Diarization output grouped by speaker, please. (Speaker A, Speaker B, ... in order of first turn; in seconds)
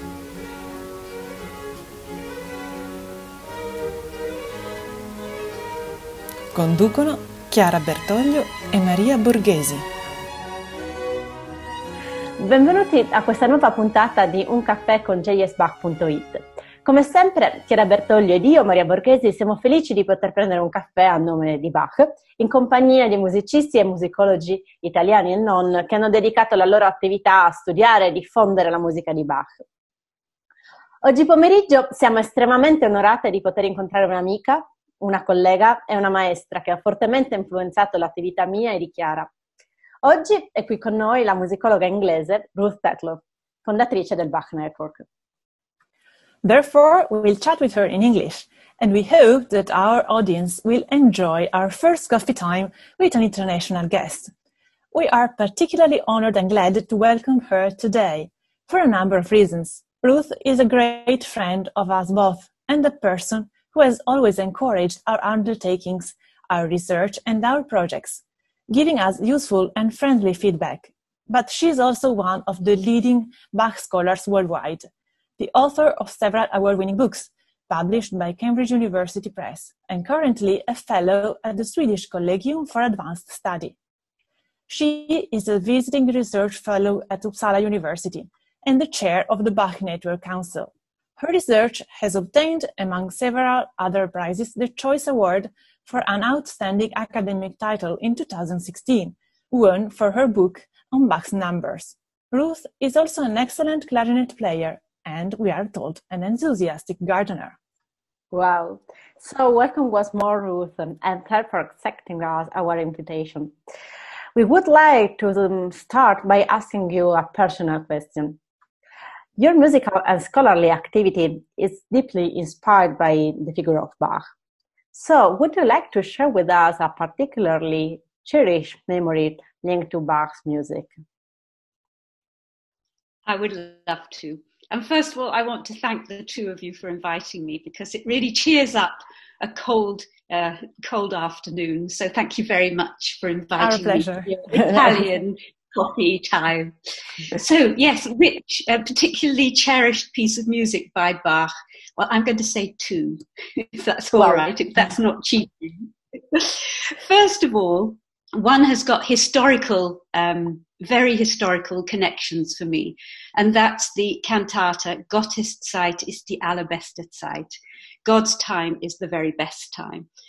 Speaker A: 6.5-9.8, 46.4-54.3, 54.9-74.9, 75.4-83.8, 84.7-107.6, 143.6-144.3
Speaker B: 12.4-29.6, 31.0-39.3, 40.0-45.0, 108.3-113.5, 114.3-118.4, 119.4-124.2, 124.9-130.9, 144.4-144.7
Speaker C: 133.2-146.7, 147.3-170.1